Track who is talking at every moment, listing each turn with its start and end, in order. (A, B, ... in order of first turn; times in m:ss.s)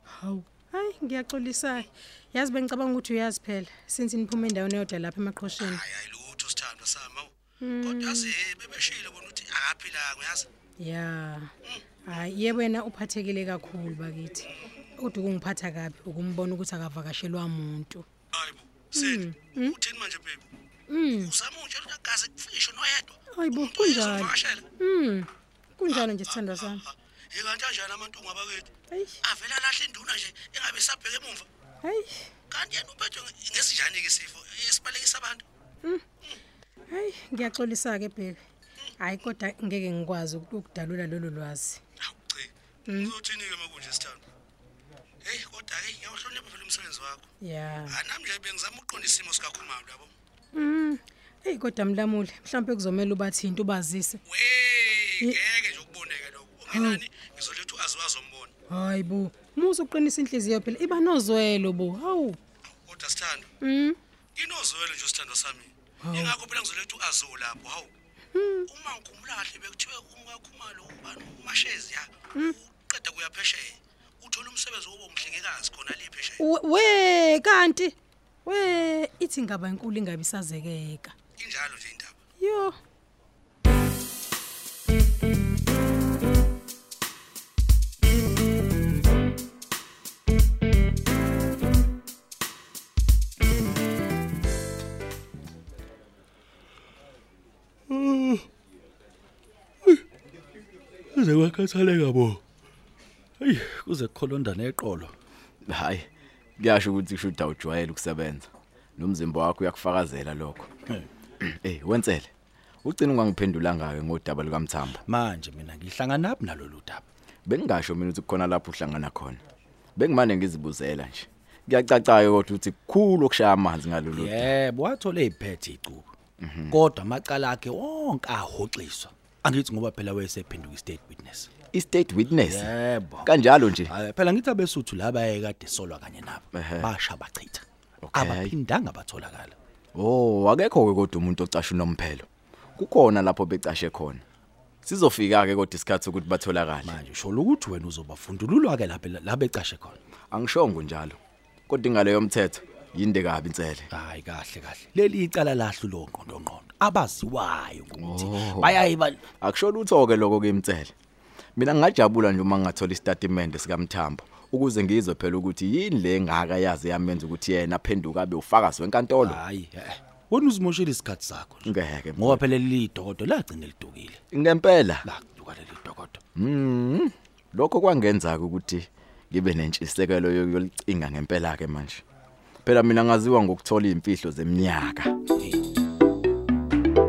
0:00.2-0:05.8 A
0:05.5-0:10.5 B
0:07.6-0:08.3 A
0:10.8-0:11.5 A
0:11.6-0:12.3 B
0:12.1-0:14.4 A
0:14.4-0:14.7 B
0:15.0-0:18.0 A
0:18.3-0:20.4 B
0:18.9-0:19.7 A
0:20.9-0:21.3 A
0:21.1-0:24.7 B
0:23.3-0:25.3 A
0:25.8-0:26.8 A
0:25.8-0:31.5 B
0:28.9-0:29.2 A
0:31.8-0:32.2 A
0:32.5-0:35.4 B
0:36.9-0:38.4 A
0:39.0-0:41.8 A
0:42.0-0:44.2 B
0:45.2-0:47.3 B
0:47.4-0:47.9 A
0:47.9-0:50.1 B
0:50.5-0:54.2 A
0:54.2-0:58.5 B
0:58.7-1:02.4 A
1:02.8-1:03.5 B
1:03.6-1:04.0 A
1:04.4-1:07.9 B
1:06.0-1:06.3 A
1:08.3-1:08.6 A
1:08.6-1:16.4 B
1:16.4-1:17.9 A
1:18.4-1:21.1 A
1:21.4-1:22.1 B
1:22.4-1:22.7 A
1:37.9-1:38.4 C
1:41.1-1:42.4 C
1:43.4-1:45.1 C
1:45.7-1:46.0 D
1:46.6-1:50.7 D
1:51.4-1:52.3 D
1:52.8-1:55.0 D
1:55.0-1:57.0 C
1:57.4-1:59.4 D
2:00.0-2:04.5 D
2:04.1-2:06.1 C
2:06.4-2:06.8 D
2:06.7-2:11.5 C
2:11.7-2:13.9 D
2:12.5-2:13.3 C
2:13.8-2:19.6 C
2:16.5-2:16.9 D
2:18.0-2:18.6 D
2:19.9-2:24.2 D
2:24.8-2:26.9 D
2:26.8-2:30.0 C
2:30.3-2:33.9 D
2:33.9-2:39.2 C
2:38.0-2:38.8 D
2:39.4-2:40.9 D
2:41.6-2:49.4 D
2:49.2-2:54.2 C
2:51.6-2:52.4 D
2:54.3-2:55.0 D
2:55.0-2:56.2 C
2:56.4-3:02.0 D
3:02.6-3:05.1 D